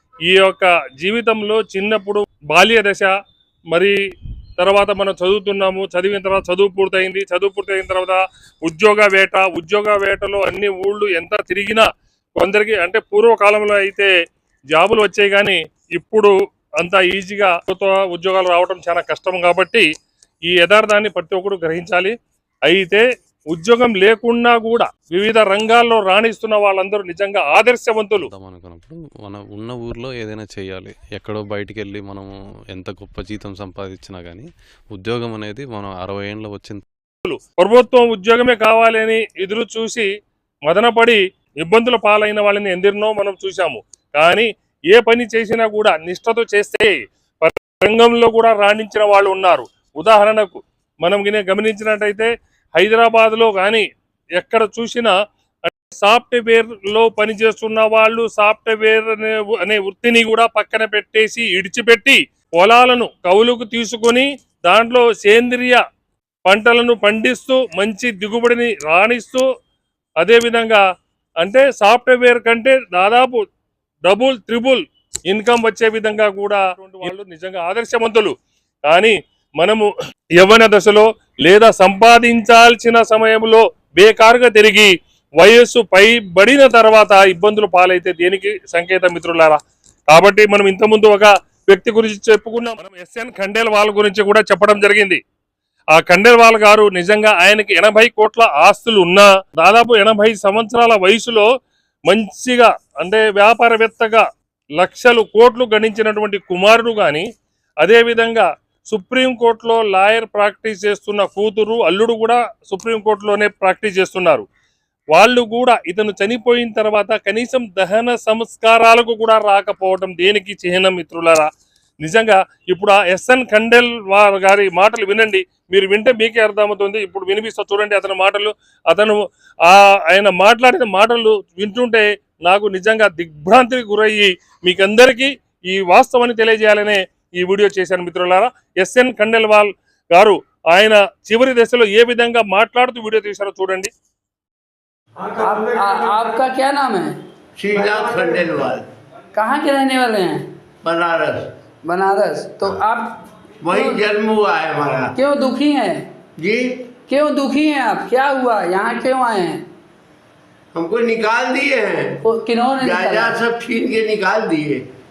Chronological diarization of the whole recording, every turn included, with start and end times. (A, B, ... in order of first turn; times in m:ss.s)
0:00.3-0:03.1 A
0:04.6-0:11.8 A
0:12.4-0:14.1 A
0:14.7-0:16.3 A
0:16.8-0:19.9 A
0:20.5-0:22.1 A
0:22.7-0:28.3 A
0:28.2-0:36.8 B
0:37.2-0:40.0 A
0:40.7-0:53.8 A
0:54.4-0:55.1 A
0:55.6-1:05.8 A
1:06.4-1:09.4 A
1:10.2-1:10.8 A
1:11.4-1:13.4 A
1:14.0-1:18.3 A
1:18.9-1:29.6 A
1:30.1-1:35.2 A
1:35.9-1:41.5 A
1:42.1-1:44.2 A
1:44.8-1:47.2 A
1:47.8-1:54.4 A
1:55.1-2:01.5 A
2:02.0-2:23.9 A
2:25.4-2:27.1 C
2:27.6-2:28.8 D
2:29.3-2:30.4 C
2:30.8-2:31.5 D
2:31.8-2:33.1 C
2:33.6-2:35.1 D
2:33.7-2:34.0 C
2:35.1-2:36.0 C
2:36.4-2:36.8 D
2:37.1-2:39.6 C
2:40.7-2:42.2 D
2:42.2-2:43.4 C
2:42.8-2:44.8 D